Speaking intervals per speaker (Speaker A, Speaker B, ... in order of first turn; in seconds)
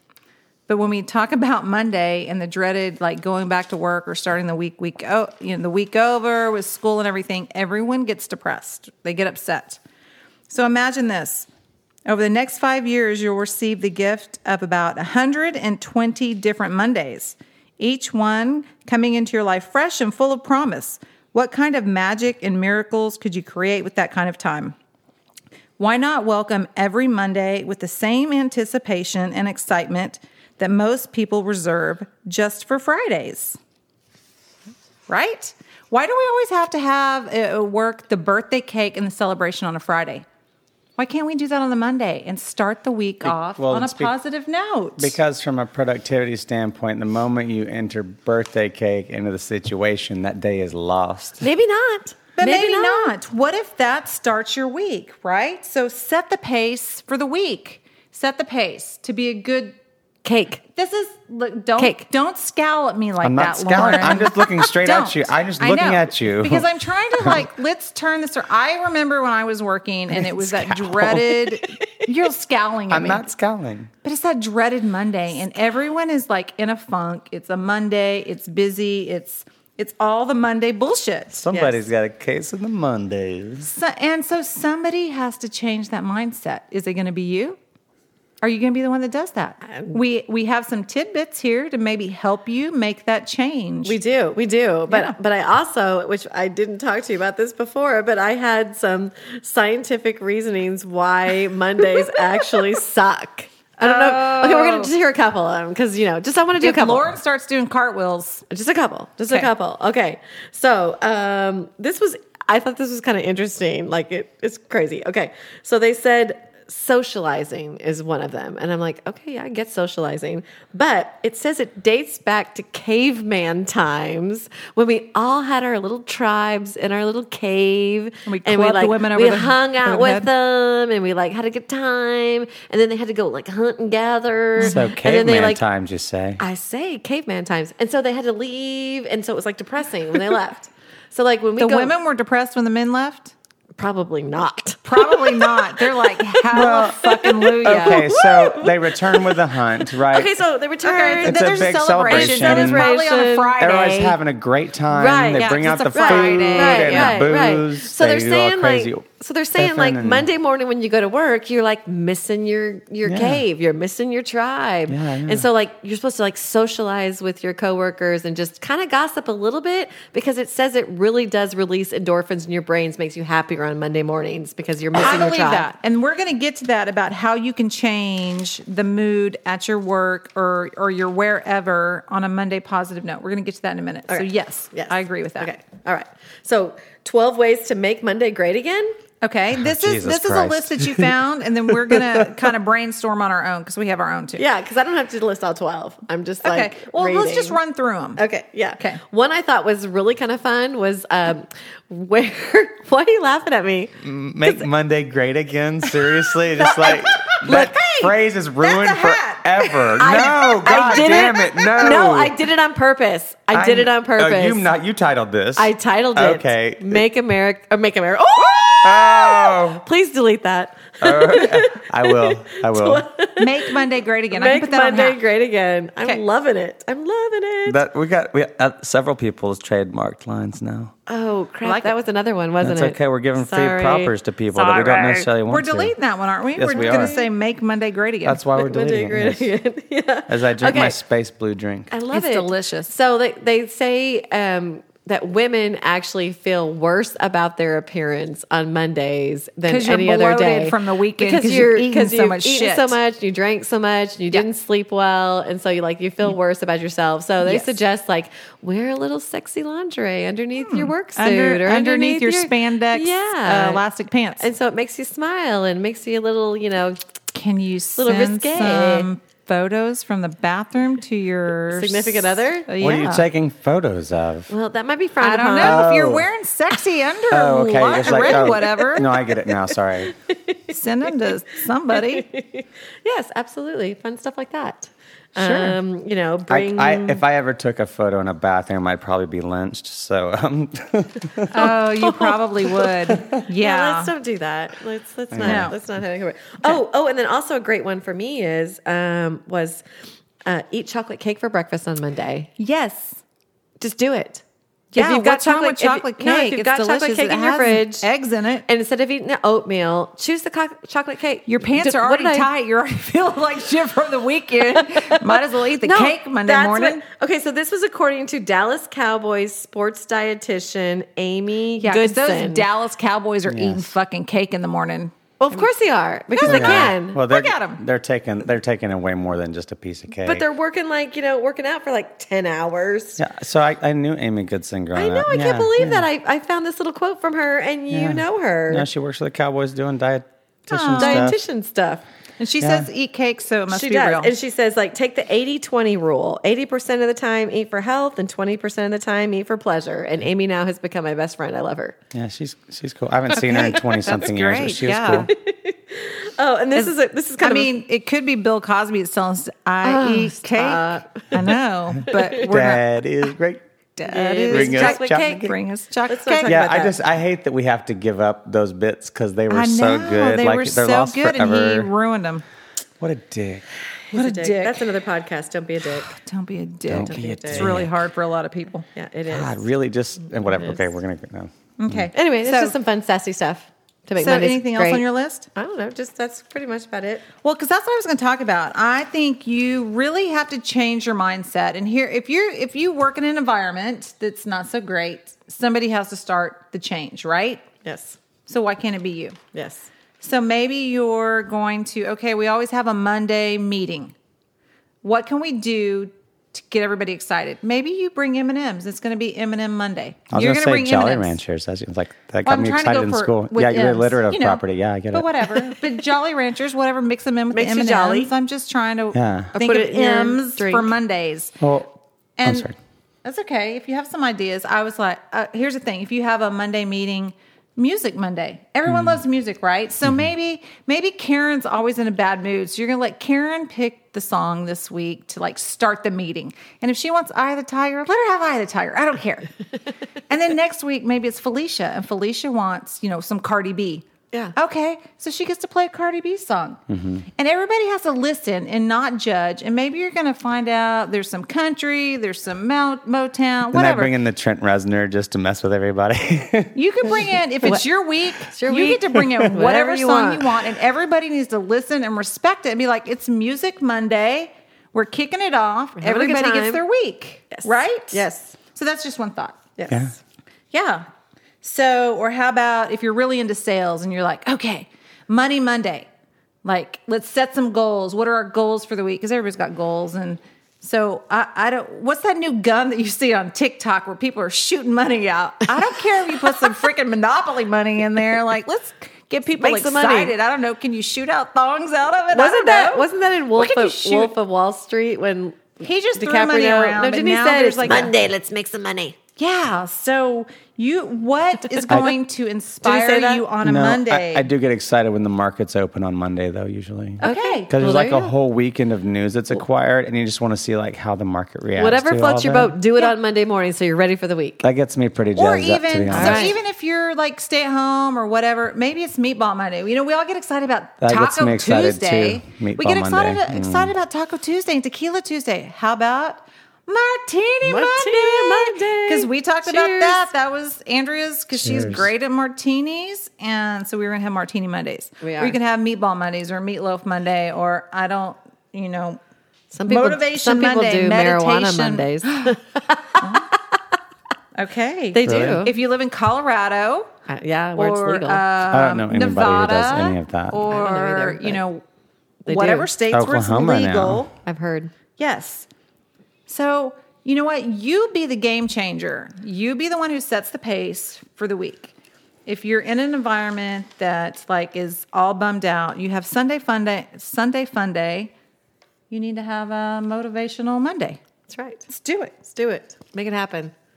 Speaker A: 0.7-9.8, 10.5-11.5, 12.1-24.7, 25.8-33.6, 35.1-40.2, 41.0-45.2, 52.4-59.8, 60.7-73.3, 74.0-81.4, 83.6-87.6, 88.4-94.0, 94.9-95.1, 103.8-104.9, 106.6-108.4, 128.2-130.3, 134.6-134.9, 141.6-143.3, 144.8-148.1, 150.8-154.2, 155.3-157.2, 175.0-185.5, 189.2-194.4, 196.4-198.2, 207.3-211.7, 223.4-225.2, 231.6-231.9, 235.4-238.4, 242.1-242.9, 249.7-253.0, 257.4-257.8, 260.6-264.5, 267.3-273.2, 275.2-279.2, 280.7-282.2, 285.4-285.8, 291.5-294.1, 295.4-295.8, 302.6-303.2, 304.9-308.6, 311.5-317.0, 321.8-325.7, 326.3-327.8, 340.7-341.3, 342.4-344.3, 353.3-355.3, 356.7-362.9, 364.0-366.6, 369.5-372.4, 374.1-374.9, 376.1-378.9, 381.8-382.8, 384.2-385.5, 387.4-397.6, 398.5-399.4, 400.2-404.1, 405.0-411.4, 412.4-421.5, 422.4-422.7, 423.2-439.5, 440.3-446.8, 447.4-454.1, 456.7-469.7, 470.7-471.0, 471.6-476.1, 476.6-494.3, 495.8-498.1, 499.4-504.5, 507.2-507.7, 515.4-539.2, 539.9-542.5, 543.2-543.5, 544.5-547.1, 547.8-551.8, 552.5-554.3, 555.2-555.7, 556.5-561.9, 562.5-568.3, 569.1-571.2, 571.9-572.4
Speaker B: 43.6-44.1, 45.0-51.4, 63.2-66.7, 67.2-67.5, 70.1-71.5, 72.9-73.9, 81.4-83.7, 134.6-136.4, 146.5-150.3, 151.2-152.9, 153.6-159.0, 159.6-160.3, 163.1-163.4, 164.9-165.5, 189.5-191.1, 191.9-192.2, 204.0-212.3, 213.5-217.0, 218.8-219.8, 221.0-223.0, 227.7-230.9, 232.6-235.9, 236.6-237.2, 238.2-239.5, 240.3-241.9, 272.8-274.5, 275.6-276.3, 277.3-280.1, 286.5-291.5, 295.3-295.7, 323.5-323.9, 326.4-330.4, 333.2-336.1, 337.9-341.4, 342.6-342.9, 352.1-355.3, 362.4-363.6, 364.5-365.6, 366.4-371.9, 373.0-373.6, 376.9-377.9, 379.3-382.1, 410.3-415.3, 419.1-419.5, 421.6-421.9, 422.4-422.7, 428.9-429.2, 446.9-447.2, 453.7-457.1, 459.2-459.4, 503.6-512.8, 514.6-516.5, 521.0-523.9, 531.6-532.1, 545.2-545.6, 548.7-550.6, 553.1-554.3
Speaker C: 51.4-53.1, 60.2-60.6, 61.8-62.0, 81.5-81.8, 89.7-90.0, 93.8-107.1, 108.5-135.6, 136.4-141.9, 143.8-146.4, 147.0-153.7, 154.9-175.7, 184.1-189.0, 194.3-197.6, 198.2-203.9, 206.6-207.6, 210.0-214.7, 215.6-227.8, 231.1-235.3, 236.7-237.3, 238.6-241.0, 241.9-263.8, 264.4-267.0, 268.0-269.1, 271.7-272.7, 274.5-275.9, 278.0-279.2, 280.2-280.7, 281.9-287.2, 291.5-299.8, 300.4-302.5, 303.8-304.4, 304.9-308.1, 308.7-312.5, 314.7-322.6, 325.4-327.2, 330.2-333.2, 334.9-338.9, 341.0-342.0, 343.7-352.0, 355.1-357.7, 359.8-361.5, 362.1-362.4, 364.1-365.0, 366.1-366.9, 374.1-376.1, 377.0-377.7, 378.9-379.6, 380.4-380.8, 382.1-387.2, 397.8-398.2, 399.5-399.9, 417.5-418.3, 419.5-420.9, 458.5-460.5, 465.9-466.8, 467.5-468.6, 469.8-470.1, 486.3-486.6, 489.6-490.3, 492.3-499.2, 502.8-503.4, 507.2-508.3, 511.8-514.6, 516.1-516.6, 527.6-530.3, 535.2-535.6, 539.7-543.8, 545.1-545.7, 547.3-548.4, 550.7-551.6, 552.5-552.9, 554.4-554.9, 571.5-571.8, 572.4-573.7